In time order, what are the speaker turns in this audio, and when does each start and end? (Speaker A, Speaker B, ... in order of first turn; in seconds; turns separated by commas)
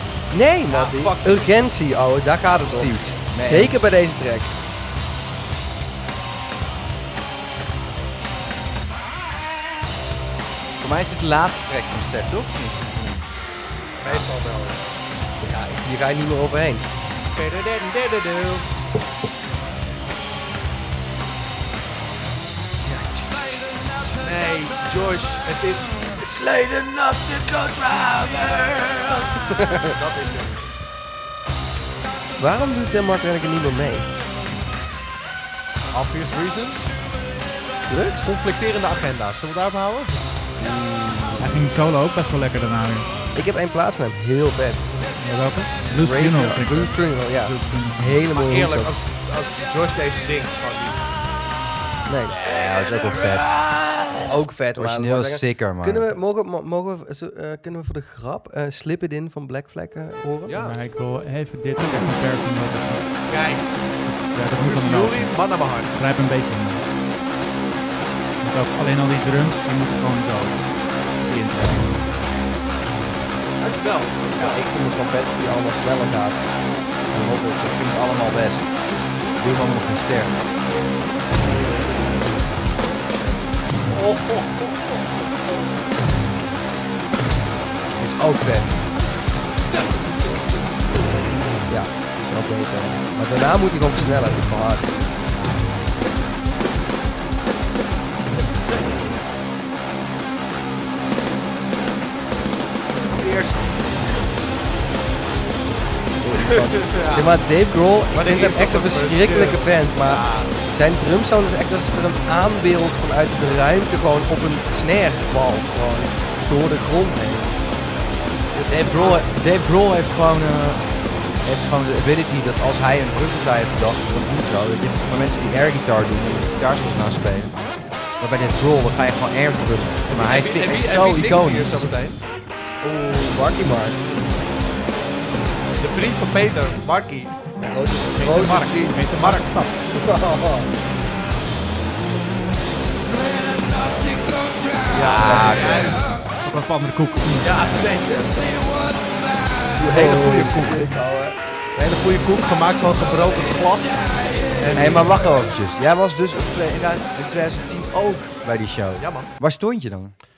Speaker A: 0.3-4.5, Speaker B: 0.7-1.6, Speaker C: 2.6-3.8, Speaker C: 10.8-13.3, Speaker B: 14.0-14.8, Speaker B: 15.4-15.8, Speaker A: 15.5-16.9, Speaker B: 17.3-18.7, Speaker A: 22.8-24.2, Speaker B: 24.1-26.2, Speaker A: 26.2-28.8, Speaker A: 29.5-29.9, Speaker B: 29.7-30.7, Speaker A: 32.4-34.1, Speaker B: 35.9-36.9, Speaker A: 37.9-38.2, Speaker B: 38.1-40.4, Speaker A: 40.6-41.6, Speaker D: 41.4-43.1, Speaker A: 43.3-44.9, Speaker D: 45.2-48.2, Speaker A: 45.9-48.9, Speaker B: 48.3-51.1, Speaker A: 52.1-52.4, Speaker C: 52.4-53.6, Speaker A: 54.1-60.5, Speaker C: 54.7-56.1, Speaker B: 60.5-60.8, Speaker D: 60.6-63.2, Speaker B: 63.3-63.7, Speaker D: 64.0-66.9, Speaker B: 64.6-66.0, Speaker D: 68.4-70.6, Speaker D: 71.2-72.1, Speaker B: 73.6-74.6, Speaker A: 74.3-76.4, Speaker A: 77.1-77.7, Speaker C: 77.6-78.7, Speaker C: 79.4-80.3, Speaker B: 83.9-84.9, Speaker C: 87.9-88.7, Speaker B: 89.7-90.4, Speaker A: 91.7-94.9, Speaker B: 103.1-103.7, Speaker A: 106.2-117.5, Speaker B: 106.4-107.4, Speaker B: 108.1-110.5, Speaker B: 118.5-119.3, Speaker C: 118.7-120.9, Speaker C: 121.4-127.6, Speaker C: 128.2-131.9, Speaker B: 130.1-132.2, Speaker A: 132.8-134.0, Speaker B: 135.7-139.5, Speaker A: 137.6-139.1, Speaker D: 138.3-139.8, Speaker A: 139.9-140.7, Speaker B: 144.9-146.2, Speaker A: 144.9-145.8, Speaker C: 145.0-146.1, Speaker D: 146.3-147.8, Speaker B: 147.4-148.6, Speaker A: 149.6-151.4, Speaker B: 149.8-151.0, Speaker B: 151.7-155.2, Speaker C: 154.7-160.2, Speaker B: 159.0-159.3